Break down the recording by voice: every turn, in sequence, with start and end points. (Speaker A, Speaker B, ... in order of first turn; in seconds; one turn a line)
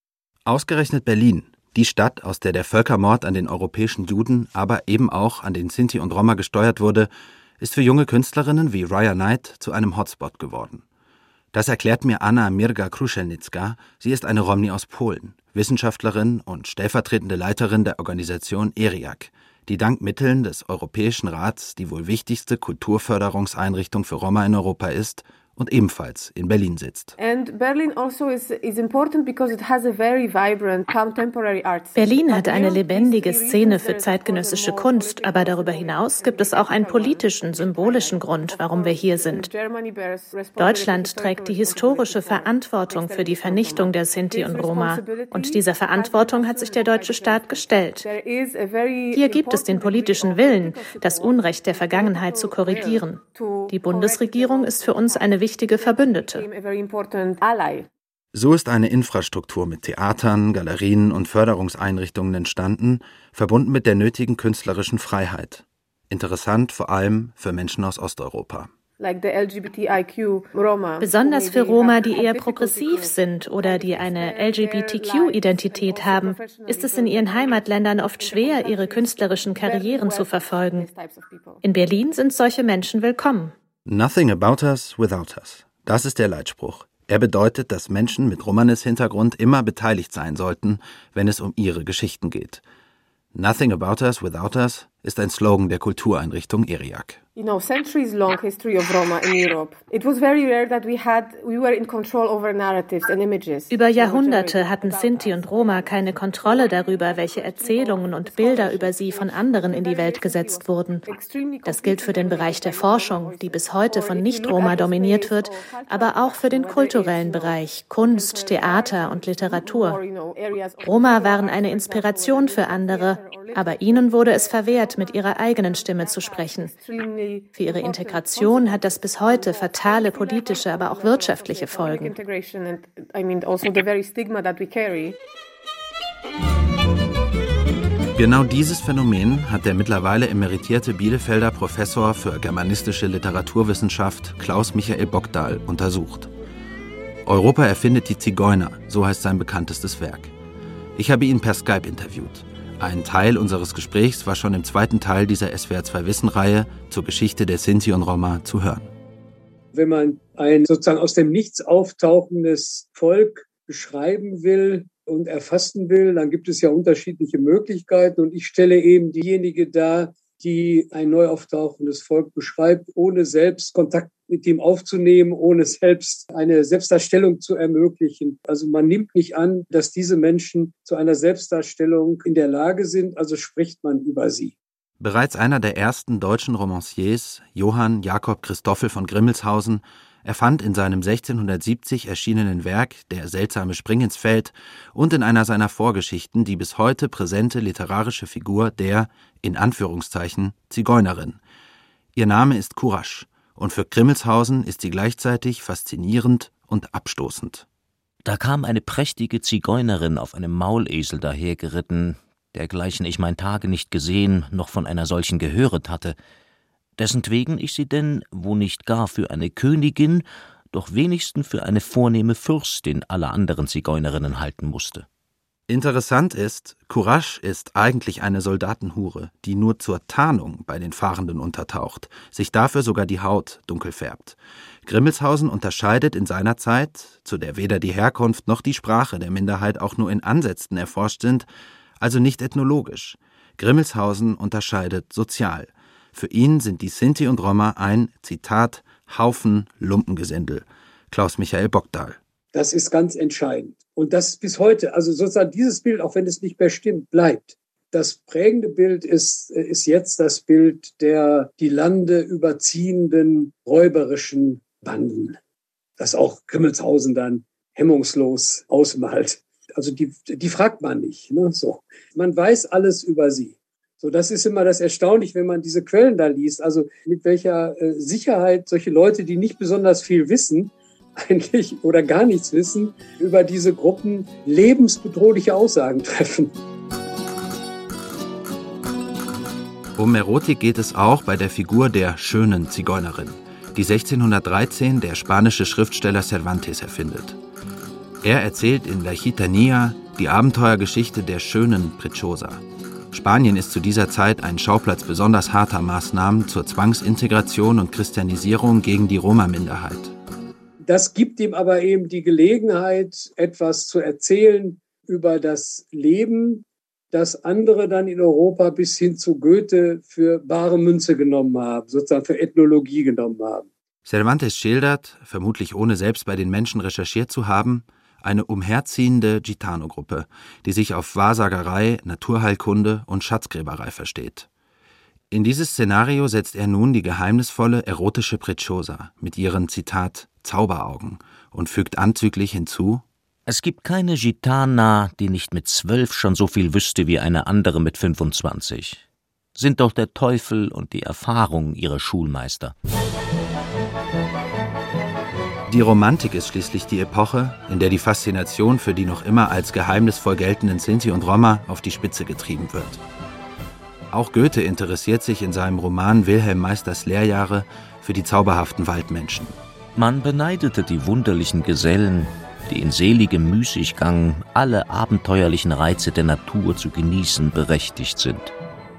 Speaker A: 0.5-10.8
Speaker A: 11.5-27.1
Speaker B: 27.2-57.9
Speaker C: 31.9-39.5
Speaker C: 40.6-48.0
Speaker C: 49.1-56.5
Speaker A: 58.3-68.7
Speaker B: 69.0-82.1
Speaker C: 71.0-80.9
Speaker C: 81.6-83.5
Speaker A: 83.9-92.6
Speaker A: 93.3-97.2
Speaker B: 97.4-135.2
Speaker C: 103.7-111.1
Speaker C: 111.7-120.0
Speaker C: 120.8-126.8
Speaker C: 127.5-132.2
Speaker A: 138.1-146.3
Speaker A: 147.3-150.3
Speaker A: 151.0-158.9
Speaker D: 159.7-184.6
Speaker A: 185.0-201.4
Speaker A: 202.2-207.7
Speaker E: 208.2-216.2
Speaker E: 217.0-225.1
Speaker A: 225.7-241.5
Speaker A: 242.0-252.2
Speaker D: 252.5-265.4
Speaker D: 266.0-286.5
Speaker A: 290.0-297.4
Speaker A: 298.2-310.1
Speaker D: 310.8-323.7
Speaker A: 324.1-334.5
Speaker A: 335.3-343.0
Speaker E: 343.5-349.0
Speaker E: 349.6-352.7
Speaker A: 355.7-363.0
Speaker A: 364.1-369.6
Speaker E: 370.0-378.5